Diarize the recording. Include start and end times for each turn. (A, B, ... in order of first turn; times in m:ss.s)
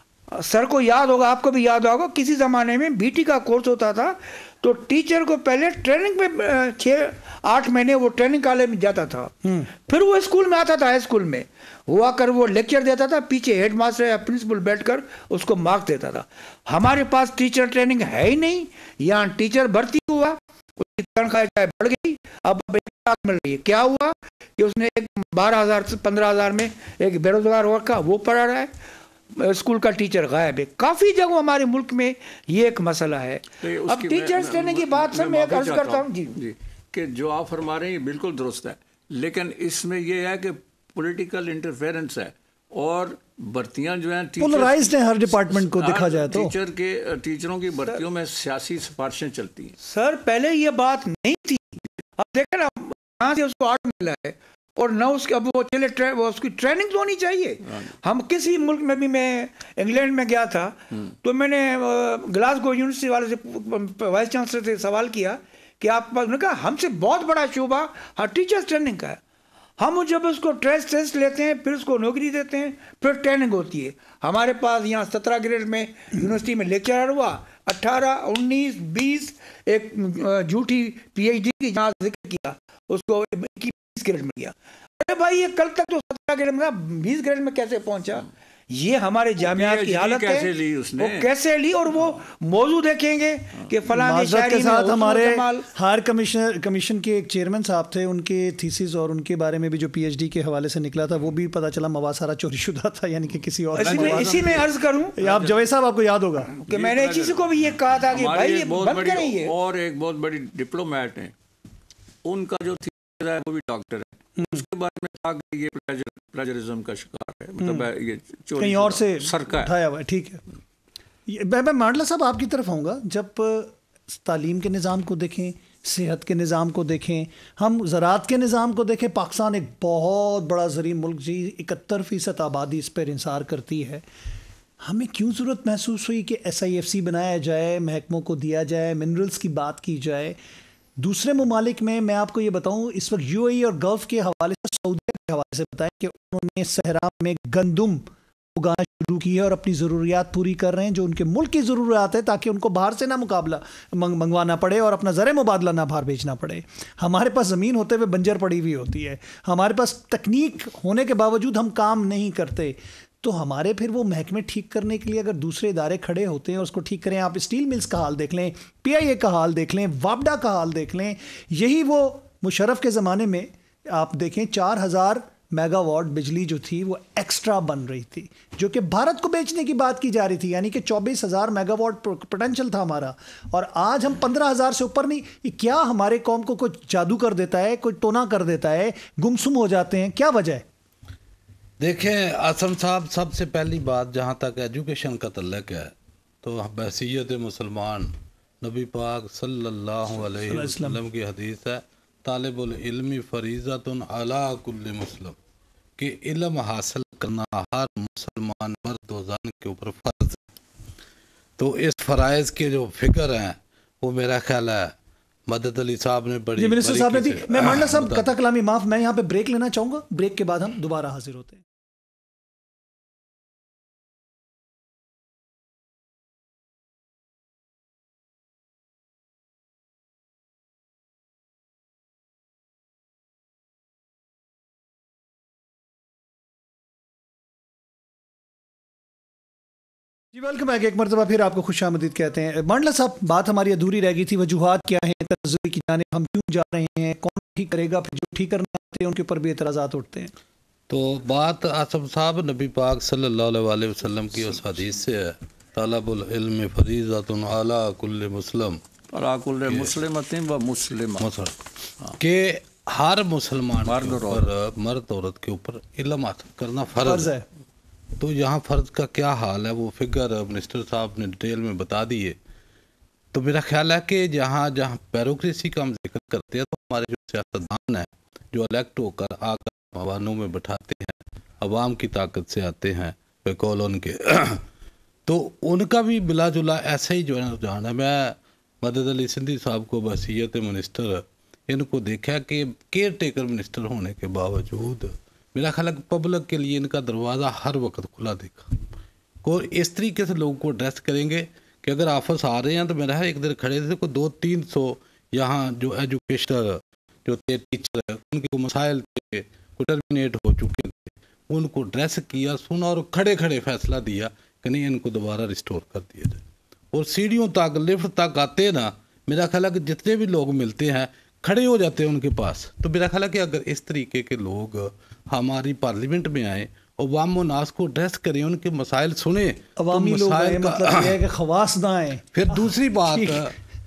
0:00.3-0:28.7 A
0:29.3-0:36.4 A
0:33.6-0:49.8 B
0:44.4-0:46.5 C
0:49.8-1:09.2 A
1:09.8-1:35.7 A
1:29.4-1:31.3 B
1:33.9-1:46.5 C
1:43.8-1:45.2 A
1:43.8-1:44.6 B
1:45.2-1:45.5 B
1:46.5-1:49.6 A
1:46.7-1:47.6 B
1:48.1-1:51.3 B
1:52.2-1:59.7 B
1:54.4-1:54.6 C
1:57.6-1:57.9 C
1:58.6-2:00.4 C
2:01.3-2:14.0 C
2:14.8-2:20.4 C
2:21.0-3:10.6 C
3:11.8-3:25.4 D
3:20.4-3:21.0 C
3:26.0-3:30.4 D
3:31.6-3:34.9 D
3:35.5-3:38.3 D
3:36.6-3:41.7 C
4:00.3-4:10.3 C
4:10.9-4:18.8 D
4:19.1-4:21.3 B
4:21.2-4:21.6 D
4:22.2-4:27.4 D
4:23.8-4:24.5 B
4:27.0-4:27.4 C
4:28.2-4:32.4 D
4:33.3-4:44.7 D
4:45.3-4:58.7 D
4:59.4-5:31.2 D
5:29.8-5:33.5 C
5:32.3-5:33.6 D